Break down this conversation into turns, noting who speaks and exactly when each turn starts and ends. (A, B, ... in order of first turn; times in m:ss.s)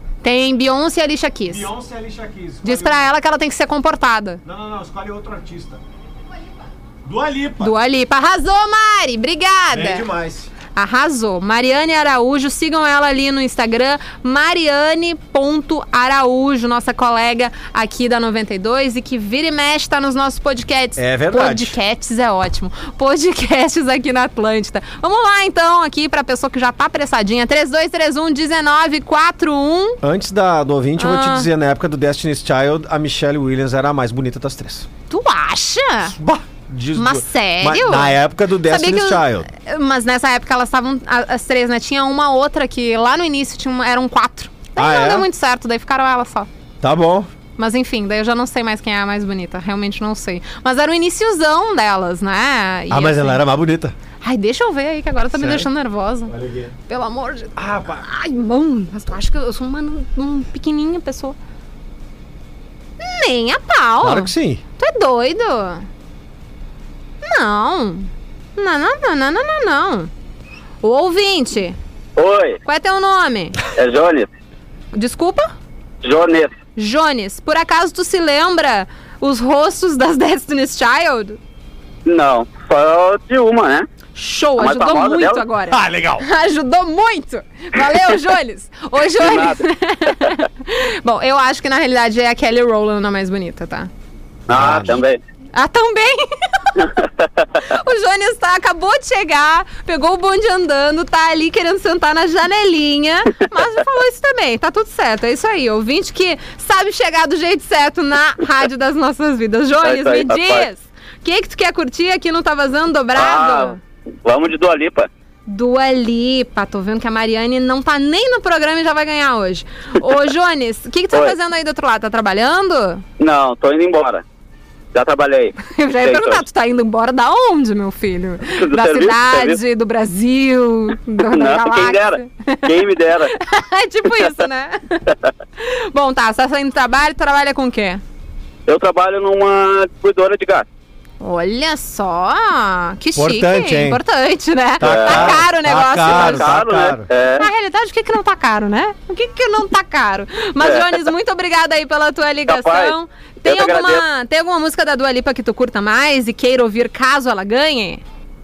0:00.2-0:01.7 A
0:01.5-0:03.1 B
0:02.6-0:04.4 A
0:04.4-0:05.8 B
0:07.0-0:07.7 B
0:07.6-0:10.1 A
0:09.7-0:10.5 B
0:10.8-0:30.0 A
0:21.0-0:21.8 B
0:30.0-0:34.9 B
0:31.0-0:31.5 A
0:35.1-0:36.2 A
0:36.1-0:39.5 B
0:37.0-0:46.5 A
0:44.8-0:45.3 B
0:46.8-0:47.3 B
0:47.6-0:53.4 A
0:52.9-0:53.9 B
0:54.2-0:56.3 A
0:55.3-0:55.7 B
0:56.3-0:56.7 B
0:56.9-1:01.4 A
0:57.6-0:58.1 B
1:03.0-1:05.9 A
1:04.0-1:04.6 B
1:07.2-1:10.1 A
1:10.8-1:11.8 A
1:12.2-1:12.6 C
1:12.6-1:13.6 A
1:13.8-1:14.3 C
1:14.9-1:15.5 A
1:16.0-1:16.5 C
1:16.8-1:21.4 A
1:22.1-1:23.9 C
1:24.2-1:33.9 A
1:24.6-1:25.4 C
1:25.7-1:26.3 B
1:29.2-1:30.4 C
1:34.5-1:35.2 C
1:34.5-1:35.0 B
1:35.5-1:37.0 A
1:36.8-1:37.3 C
1:37.6-1:53.8 A
1:49.8-1:50.7 C
1:53.2-1:55.1 C
1:55.5-2:03.0 A
2:03.2-2:04.2 C
2:04.9-2:06.4 C
2:05.6-2:18.0 A
2:08.5-2:09.6 C
2:11.3-2:13.3 C
2:18.7-2:20.6 C
2:21.2-2:26.6 A
2:23.2-2:24.0 B
2:24.8-2:27.1 B
2:24.8-2:25.4 C
2:26.0-2:27.5 C
2:27.4-2:38.0 A
2:30.6-2:31.0 C
2:32.5-2:32.9 C
2:33.4-2:34.0 C